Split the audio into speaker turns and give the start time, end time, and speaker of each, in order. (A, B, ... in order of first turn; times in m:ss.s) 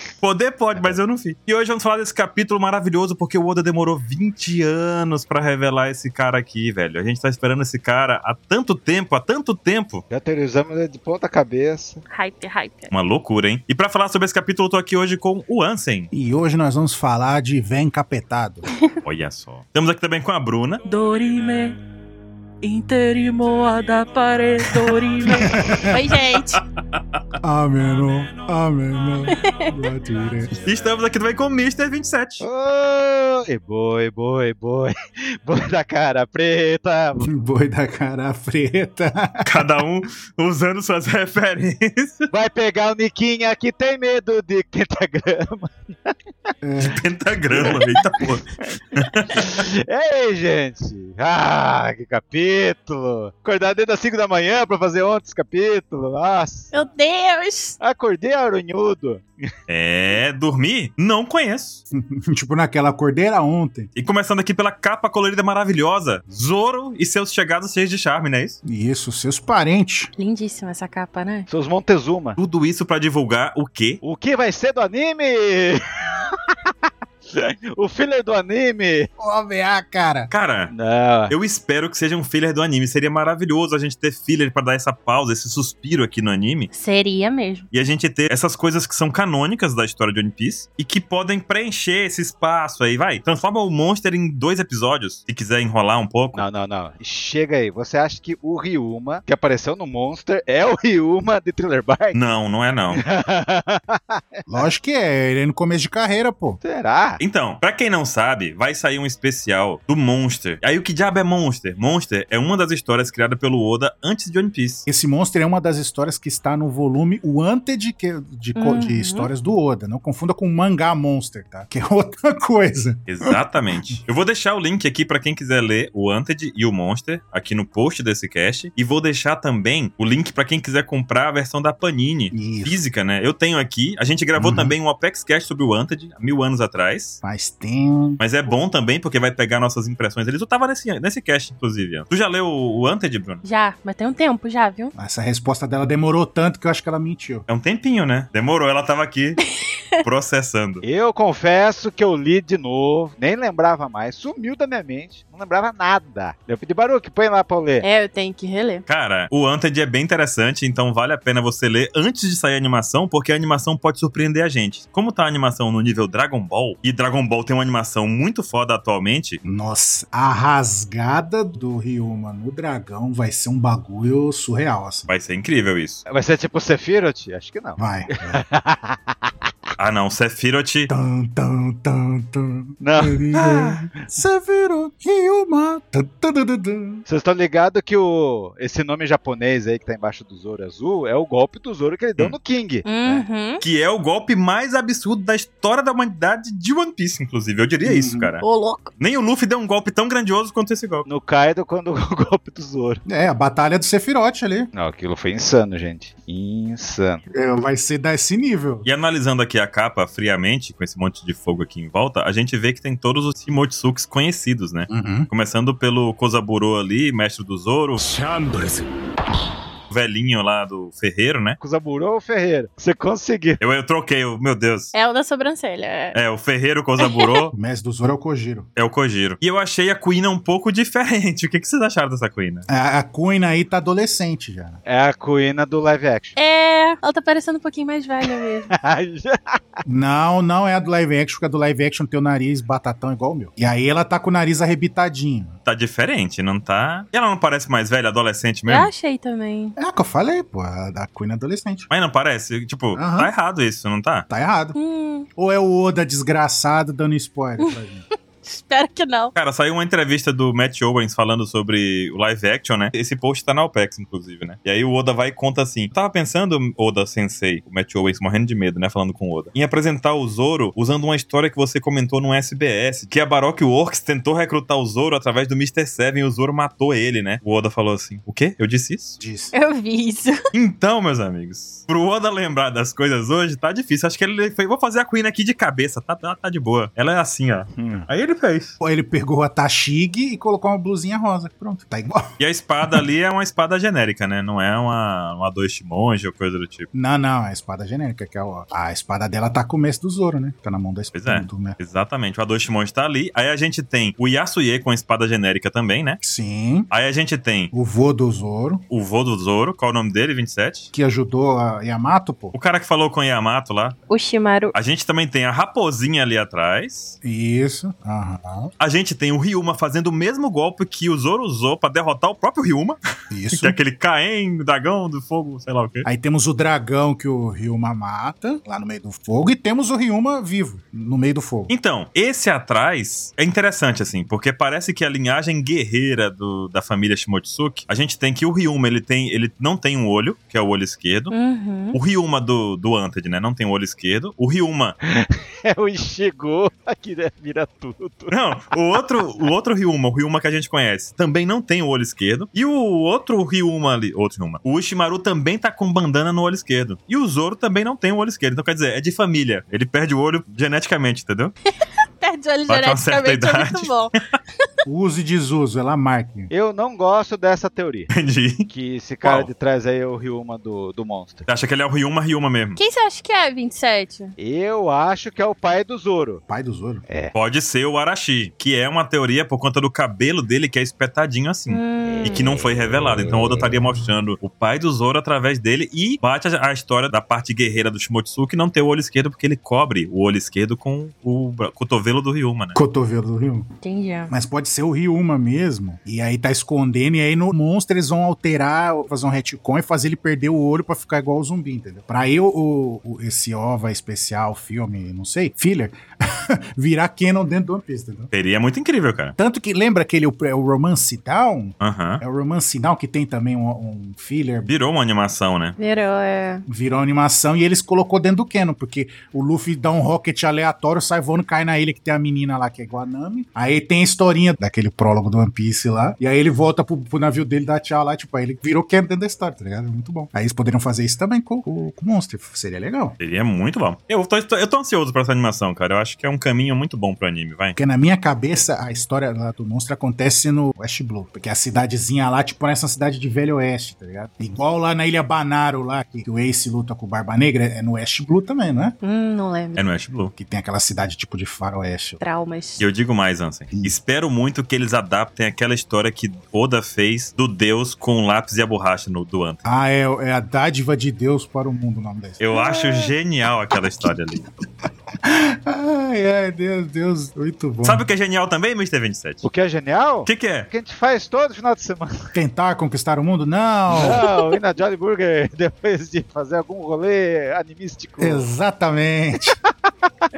0:00.2-0:10.0 A
0:10.1-0:12.0 B
0:12.1-0:12.9 C
0:12.9-0:16.1 A
0:16.1-0:18.6 D
0:19.0-0:20.8 A
0:20.8-0:21.8 C
0:22.6-0:26.6 C
0:25.3-0:26.0 D
0:26.5-0:27.0 A
0:27.4-0:30.6 D
0:29.3-0:29.7 C
0:30.6-0:32.4 A
0:32.4-0:37.3 B
0:37.2-0:39.6 D
0:39.4-0:42.3 A
0:42.3-0:46.5 B
0:46.6-0:47.0 D
0:46.8-0:49.6 A
0:47.5-0:48.3 B
0:49.3-0:56.7 B
0:56.7-0:57.8 C
0:57.8-0:59.4 B
0:59.7-1:01.8 A
1:01.9-1:03.9 D
1:03.9-1:08.6 A
1:08.6-1:10.1 D
1:10.2-1:11.5 C
1:11.5-1:12.4 B
1:12.4-1:14.0 A
1:14.0-1:16.7 B
1:17.3-1:19.1 B
1:19.2-1:20.3 D
1:20.3-1:20.7 A
1:20.7-1:21.3 B
1:21.3-1:26.7 A
1:26.7-1:27.6 C
1:27.7-1:36.4 A
1:36.3-1:42.2 B
1:42.1-1:43.0 A
1:42.9-1:44.6 B
1:44.5-1:46.6 D
1:46.6-1:47.2 B
1:47.2-1:54.9 A
1:54.9-2:03.4 D
1:58.6-1:59.3 C
2:03.1-2:17.2 A
2:12.3-2:12.8 D
2:14.4-2:14.8 D
2:17.2-2:18.2 D
2:18.2-2:23.4 A
2:23.4-2:24.9 C
2:24.9-2:27.4 D
2:27.5-2:29.4 A
2:30.0-2:30.8 A
2:30.8-2:37.8 B
2:37.8-2:38.8 C
2:38.9-2:49.4 A
2:49.4-2:55.1 D
2:55.1-2:56.0 A
2:56.1-2:59.5 B
2:57.8-2:58.4 D
2:59.8-3:00.9 A
3:00.9-3:07.0 D
3:02.8-3:03.3 B
3:03.4-3:03.7 A
3:07.0-3:13.2 B
3:12.8-3:13.6 C
3:13.6-3:18.4 A
3:17.8-3:18.3 D
3:18.4-3:18.9 C
3:19.0-3:21.1 A
3:21.0-3:23.0 B
3:23.0-3:24.7 D
3:24.7-3:27.2 B
3:27.3-3:28.9 D
3:28.8-3:38.0 A
3:34.9-3:35.3 D
3:38.0-3:38.8 D
3:39.9-3:41.6 A
3:41.6-3:43.6 B
3:43.6-3:44.9 A
3:44.9-3:46.2 C
3:46.1-3:47.5 A
3:47.0-3:47.4 C
3:47.5-3:48.7 D
3:48.8-3:52.6 A
3:52.7-3:54.8 D
3:54.8-3:56.4 B
3:56.4-3:58.7 C
3:58.7-3:59.6 B
3:59.8-4:05.6 D
4:05.6-4:08.9 A
4:08.6-4:09.7 C
4:09.8-4:11.9 D
4:11.9-4:14.2 A
4:12.9-4:13.3 D
4:14.3-4:14.8 D
4:14.7-4:15.3 C
4:15.4-4:18.0 D
4:18.4-4:19.3 C
4:19.3-4:39.2 A
4:39.2-4:39.5 D
4:39.5-4:40.4 C
4:40.5-4:48.8 A
4:47.8-4:48.1 B
4:48.8-4:53.0 D
4:52.4-4:56.9 A
4:56.9-5:01.8 D
5:01.1-5:06.2 A
5:06.2-5:06.9 D
5:06.9-5:07.7 A
5:07.7-5:08.8 D
5:08.9-5:10.9 A
5:10.9-5:12.5 D
5:12.5-5:14.0 A
5:14.1-5:14.7 C
5:14.7-5:17.2 A
5:17.2-5:18.7 D
5:18.8-5:23.0 A
5:23.3-5:23.8 D
5:23.5-5:26.1 A
5:26.0-5:31.7 D
5:31.7-5:41.3 A
5:41.3-5:42.0 C
5:41.9-5:44.9 A
5:45.1-5:48.3 B
5:48.3-6:01.5 A
6:01.8-6:04.1 C
6:02.7-6:03.9 A
6:04.8-6:06.5 D
6:06.5-6:08.1 B
6:08.1-6:08.7 A
6:08.7-6:11.4 B
6:09.2-6:09.5 A
6:11.5-6:12.8 A
6:12.8-6:14.3 C
6:14.4-6:16.4 B
6:16.5-6:17.0 D
6:17.1-6:17.3 B
6:17.3-6:32.8 A
6:21.7-6:22.5 C
6:22.1-6:22.9 B
6:32.7-6:33.7 D
6:33.8-6:34.3 C
6:34.3-6:48.3 D
6:48.3-6:49.3 A
6:49.4-6:54.7 D
6:51.8-6:52.2 A
6:54.7-6:55.8 A
6:55.8-6:56.6 C
6:56.6-7:13.2 D
7:13.2-7:17.8 A
7:17.8-7:29.0 D
7:29.0-7:29.8 C
7:29.8-7:30.3 A
7:30.4-7:32.2 D
7:32.2-7:32.8 C
7:32.8-7:39.6 A
7:39.6-7:43.1 D
7:42.4-7:44.6 A
7:45.2-7:48.0 D
7:47.8-7:49.4 A
7:49.4-7:52.1 B
7:50.2-7:50.7 A
7:52.3-7:54.2 D
7:53.9-7:58.4 B
7:54.2-7:54.5 C
7:58.2-7:59.6 D